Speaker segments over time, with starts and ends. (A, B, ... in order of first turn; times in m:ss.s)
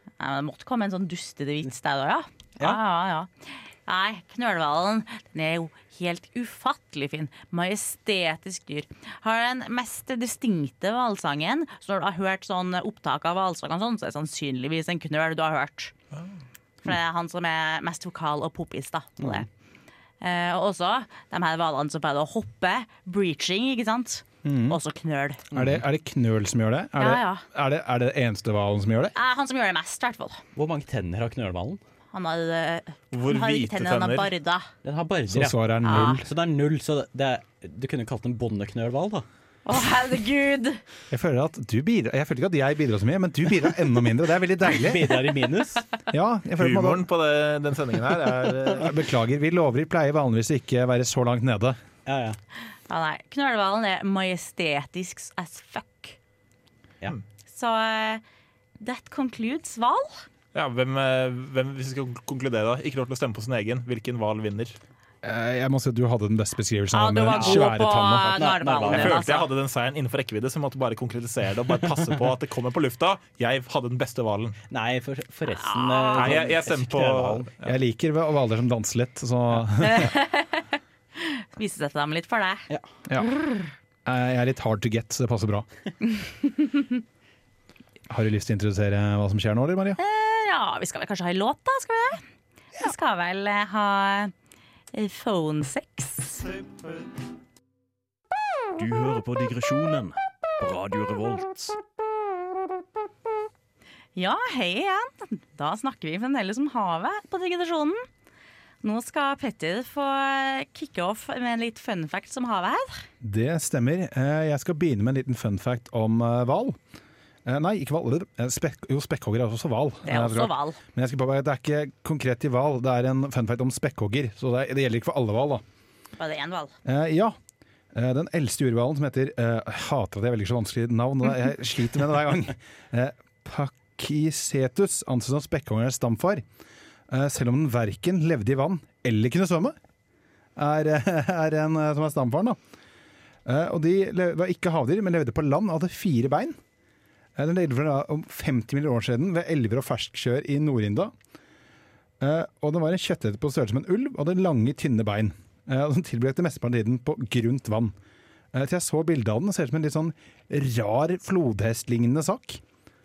0:00.2-0:15.9 A
0:16.8-0:19.5 A
0:19.2-0:19.4 B
0:20.2-0:25.4 A
0:24.4-0:24.8 C
0:25.5-0:25.8 B
0:25.5-0:29.1 C
0:27.0-0:27.4 A
0:29.1-0:30.4 A
0:30.5-0:31.8 B
0:32.1-0:34.7 A
0:33.1-0:34.3 D
0:34.8-0:39.2 B
0:35.3-0:36.3 C
0:35.8-0:36.2 A
0:39.6-0:40.8 A
0:41.1-0:45.2 C
0:44.7-0:45.8 B
0:46.1-0:47.0 C
0:46.6-0:49.0 D
0:48.7-0:51.8 C
0:52.0-0:52.4 B
0:52.9-0:56.2 A
0:57.5-0:58.2 A
0:58.8-1:00.2 A
1:00.5-1:04.8 D
1:05.2-1:08.4 C
1:06.9-1:09.5 A
1:07.3-1:07.7 B
1:08.3-1:09.2 B
1:08.8-1:14.6 D
1:14.7-1:17.5 B
1:15.5-1:16.4 A
1:16.1-1:17.7 D
1:17.6-1:20.1 C
1:19.8-1:22.7 A
1:23.2-1:23.7 A
1:24.0-1:25.7 C
1:28.1-1:30.0 C
1:30.0-1:32.2 A
1:32.8-1:34.3 A
1:34.9-1:36.6 A
1:38.8-1:41.8 E
1:44.2-1:48.0 A
1:48.8-1:53.1 A
1:53.2-1:56.8 C
1:57.4-2:05.6 C
2:00.0-2:00.8 A
2:06.2-2:06.7 A
2:06.8-2:07.3 C
2:07.9-2:16.4 C
2:17.1-2:19.8 C
2:20.6-2:22.6 C
2:23.4-2:26.6 C
2:27.4-2:31.1 C
2:32.2-2:37.9 C
2:38.5-2:42.6 C